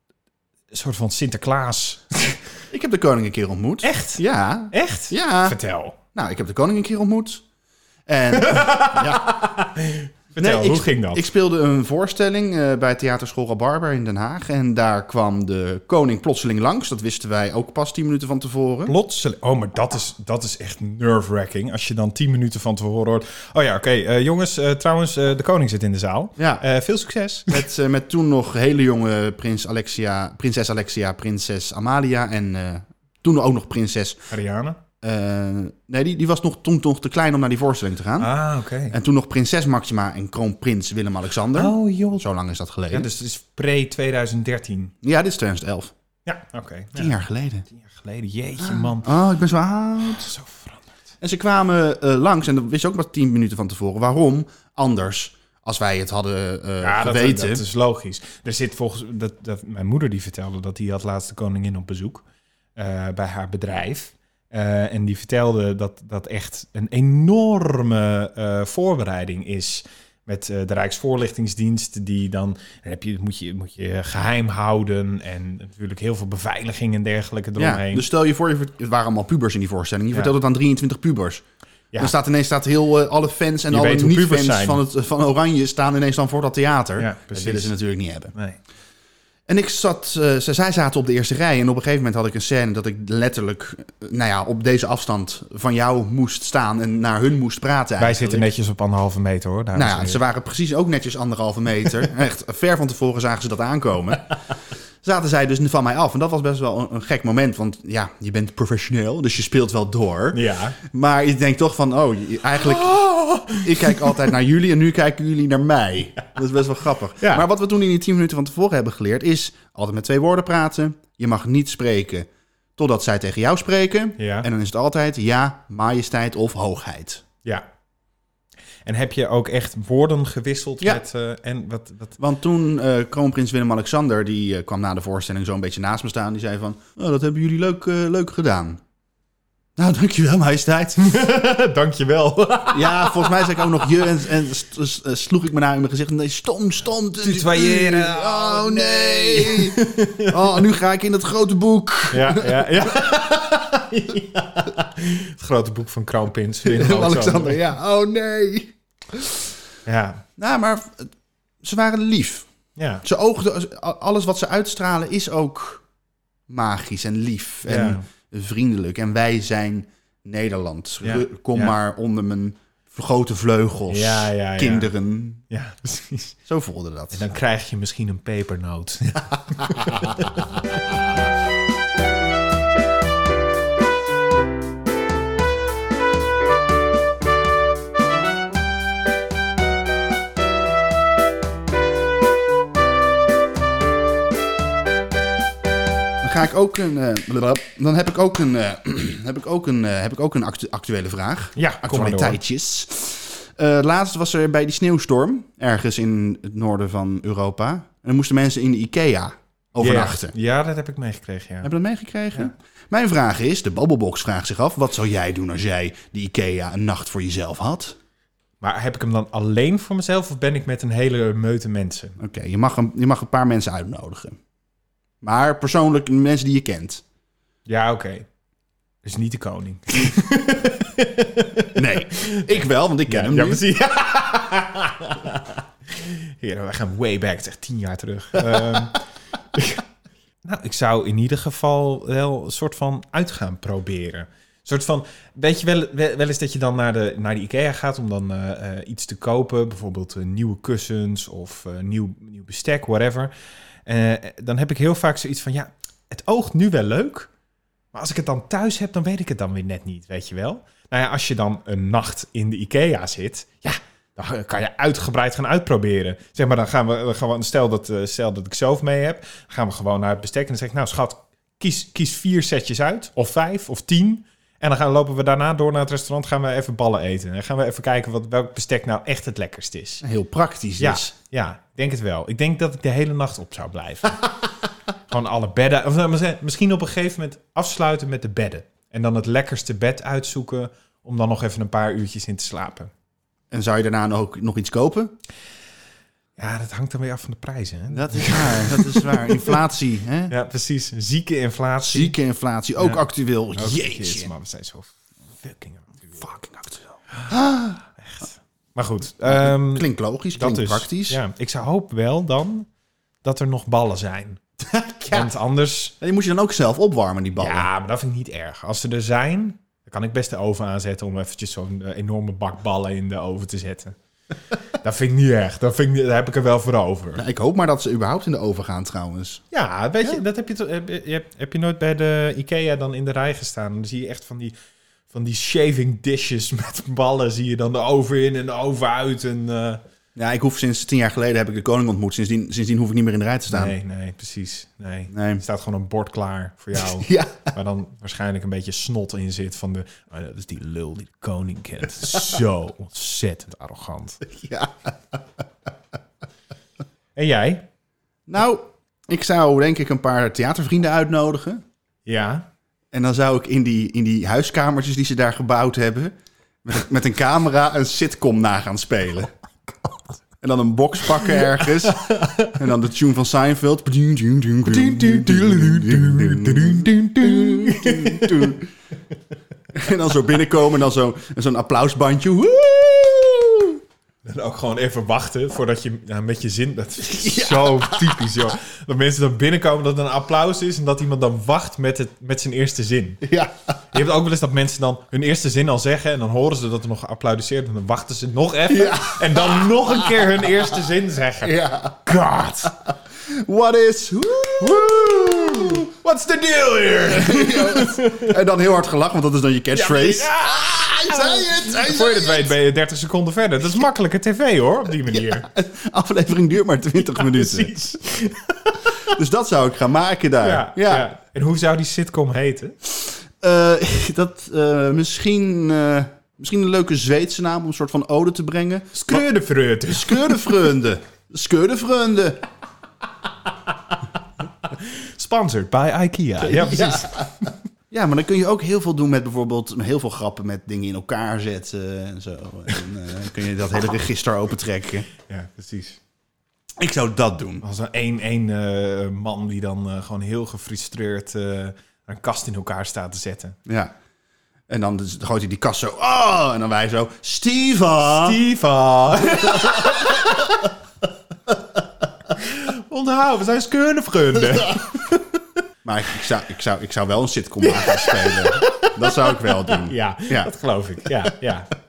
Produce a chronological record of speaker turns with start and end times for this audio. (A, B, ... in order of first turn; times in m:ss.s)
0:00.7-0:02.5 A
0:02.7-0:05.6 B
0:03.8-0:06.0 A
0:06.1-0:07.4 B
0:08.1-0:09.4 B
0:08.4-0:11.3 A
0:10.4-0:19.0 B
0:18.9-0:27.7 A
0:26.4-0:26.6 B
0:27.5-0:34.3 B
0:34.3-0:34.8 A
0:35.0-0:38.3 B
0:38.2-0:39.0 A
0:38.9-0:43.1 B
0:41.5-0:42.3 A
0:42.9-0:45.0 A
0:45.0-0:45.9 B
0:46.3-0:47.1 A
0:47.0-0:47.7 B
0:47.7-0:49.1 A
0:48.6-0:50.3 B
0:50.0-0:50.9 A
0:51.2-0:57.6 B
0:56.8-1:02.2 A
1:02.8-1:18.1 A
1:17.6-1:21.4 B
1:22.0-1:28.3 B
1:23.7-1:24.8 A
1:27.0-1:27.7 A
1:28.3-1:28.6 A
1:29.5-1:38.5 B
1:38.0-1:40.2 A
1:39.8-1:44.4 B
1:45.0-2:07.2 B
1:50.3-1:50.8 A
1:52.6-1:54.3 A
1:57.2-1:57.5 A
2:04.2-2:04.5 A
2:08.8-2:12.2 A
2:12.2-2:18.8 B
2:19.8-2:21.1 B
2:21.0-2:24.1 A
2:22.7-2:33.0 B
2:27.2-2:30.6 A
2:32.1-2:37.6 A
2:36.6-2:39.5 B
2:39.9-2:40.2 A
2:40.4-2:42.5 B
2:42.8-2:43.0 A
2:43.0-2:45.8 B
2:46.5-2:55.4 B
2:47.7-2:48.0 A
2:51.0-2:51.8 A
2:53.9-2:54.9 A
2:55.5-2:56.4 A
2:56.5-2:57.3 B
2:57.1-3:01.1 A
3:16.2-3:30.3 B
3:21.6-3:22.4 A
3:29.8-3:31.7 A
3:31.6-3:38.0 B
3:38.6-3:42.2 A
3:42.2-3:44.4 B
3:45.2-3:47.0 B
3:47.7-3:48.3 A
3:49.0-3:59.0 A
3:51.8-3:53.6 B
3:59.5-3:59.8 A
4:00.4-4:13.3 A
4:13.8-4:17.3 A
4:17.9-4:40.0 A
4:40.0-4:41.1 B
4:40.8-4:44.3 A
4:45.1-4:52.9 A
4:53.5-4:55.2 B
4:56.4-4:59.6 A
4:57.9-5:00.3 B
5:00.3-5:02.2 A
5:01.8-5:04.3 B
5:02.8-5:03.0 A
5:03.6-5:06.3 A
5:06.2-5:07.8 B
5:08.0-5:12.7 A
5:09.2-5:11.2 B
5:13.2-5:14.4 A
5:14.7-5:15.3 B
5:15.1-5:16.0 A
5:16.0-5:17.7 B
5:17.4-5:24.0 A
5:24.7-5:27.2 A
5:27.2-5:29.4 B
5:29.5-5:34.6 A
5:35.1-5:39.8 A
5:40.2-5:43.8 B
5:43.5-5:54.2 A
5:45.1-5:45.4 B
5:46.8-5:47.5 B
5:54.2-5:55.2 B
5:57.2-5:57.7 A
5:58.3-6:01.6 B
6:02.1-6:02.5 A
6:02.9-6:06.1 B
6:06.6-6:09.3 B
6:10.4-6:18.7 B
6:11.2-6:12.6 A
6:14.7-6:18.6 A
6:19.7-6:23.8 B
6:24.2-6:33.2 A
6:27.0-6:28.3 B
6:33.2-6:33.8 B
6:33.9-6:42.7 A
6:38.7-6:40.6 B
6:41.4-6:42.0 B
6:42.9-6:45.9 B
6:44.6-6:48.4 A
6:47.1-6:52.5 B
6:49.7-6:55.5 A
6:55.1-6:57.8 B
6:57.0-6:59.1 A
6:59.0-7:01.1 B
7:00.4-7:02.8 A
7:03.4-7:09.2 B
7:08.9-7:10.7 A
7:09.9-7:12.4 B
7:14.6-7:17.5 A
7:16.4-7:25.1 B
7:25.3-7:26.0 A
7:26.8-7:27.6 B
7:27.6-7:33.6 A
7:33.7-7:33.9 B
7:34.7-7:38.4 B
7:38.0-7:40.7 A
7:39.5-7:40.3 B
7:42.3-7:45.4 A
7:45.8-7:50.5 B
7:47.6-7:51.7 A